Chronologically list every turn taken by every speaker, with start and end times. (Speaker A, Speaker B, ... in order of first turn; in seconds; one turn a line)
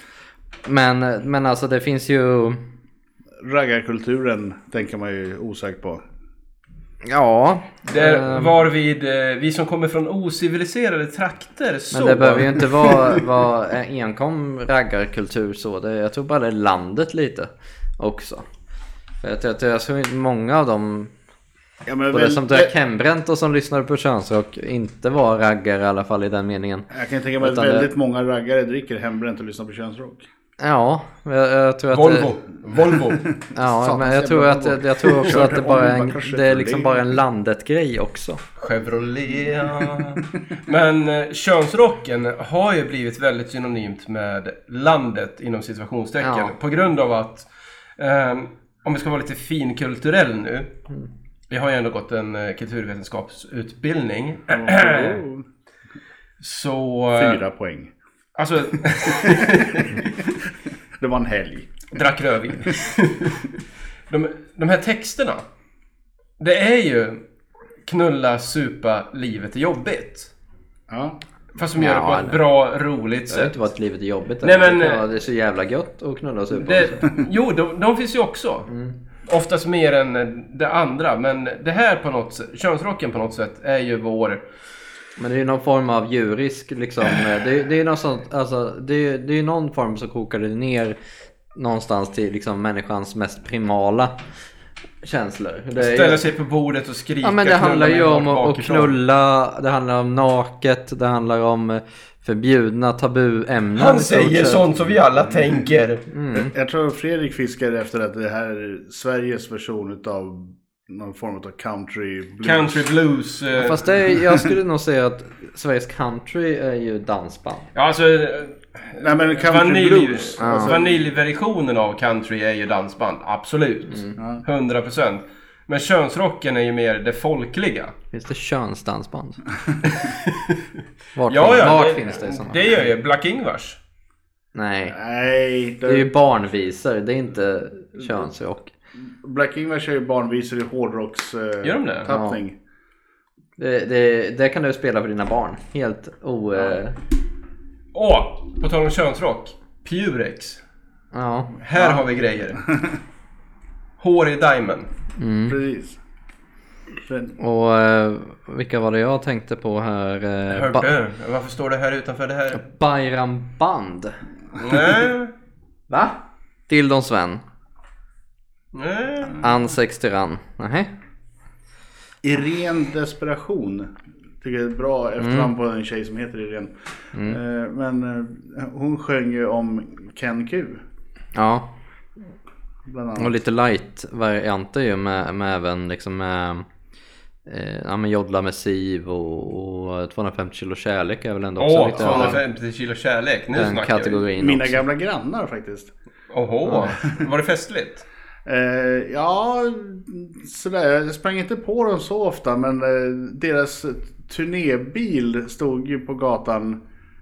Speaker A: 0.7-2.6
Speaker B: 3.4-6.0
Speaker A: 7.0-8.6
Speaker C: 7.9-13.2
Speaker A: 11.9-18.5
Speaker A: 19.2-21.1
Speaker B: 21.9-22.7
Speaker A: 22.1-26.9
Speaker B: 26.9-30.2
Speaker A: 27.4-27.9
Speaker A: 30.6-32.3
Speaker C: 31.9-33.3
Speaker B: 33.4-37.0
Speaker A: 33.5-38.4
Speaker C: 38.6-50.7
Speaker A: 46.2-46.5
Speaker C: 51.5-55.2
Speaker B: 54.5-55.5
Speaker C: 56.4-57.4
Speaker B: 57.1-57.9
Speaker C: 58.4-60.1
Speaker B: 59.3-59.6
Speaker B: 61.0-62.0
Speaker C: 61.9-63.6
Speaker C: 64.1-65.4
Speaker C: 66.4-67.2
Speaker C: 67.9-70.3
Speaker B: 70.9-71.2
Speaker C: 71.6-73.5
Speaker A: 71.8-72.4
Speaker A: 73.3-77.1
Speaker C: 74.4-75.0
Speaker C: 76.5-78.7
Speaker A: 78.7-78.9
Speaker C: 79.3-84.4
Speaker A: 85.2-91.0
Speaker A: 91.5-94.2
Speaker A: 95.0-96.2
Speaker C: 95.8-99.0
Speaker A: 97.2-104.7
Speaker C: 103.8-106.1
Speaker A: 106.1-106.5
Speaker B: 106.3-112.9
Speaker C: 112.4-113.8
Speaker A: 113.6-117.7
Speaker B: 114.1-114.5
Speaker C: 117.8-127.9
Speaker B: 119.0-121.0
Speaker A: 120.4-120.8
Speaker B: 124.2-124.4
Speaker A: 128.1-129.4
Speaker C: 129.8-130.6
Speaker A: 131.2-132.8
Speaker C: 131.3-133.8
Speaker A: 134.6-134.9
Speaker B: 134.8-136.1
Speaker A: 135.9-138.7
Speaker B: 139.1-142.6
Speaker C: 141.6-142.2
Speaker A: 142.1-142.4
Speaker A: 143.6-147.0
Speaker C: 147.9-150.6
Speaker A: 151.1-151.5
Speaker C: 151.6-152.6
Speaker B: 151.8-152.9
Speaker C: 154.0-154.9
Speaker A: 155.2-155.6
Speaker B: 155.5-156.0
Speaker B: 157.1-157.3
Speaker A: 157.4-160.9
Speaker C: 160.5-162.6
Speaker A: 162.5-164.2
Speaker C: 164.6-165.3
Speaker A: 165.9-167.4
Speaker C: 168.7-169.4
Speaker A: 169.4-170.9
Speaker B: 172.2-180.8
Speaker A: 175.2-175.5
Speaker A: 181.3-181.7
Speaker B: 182.9-183.4
Speaker A: 183.2-186.7
Speaker A: 187.5-192.4
Speaker C: 191.6-194.2
Speaker B: 192.0-192.4
Speaker A: 193.6-194.8
Speaker B: 194.4-195.9
Speaker C: 196.3-198.1
Speaker B: 198.5-206.8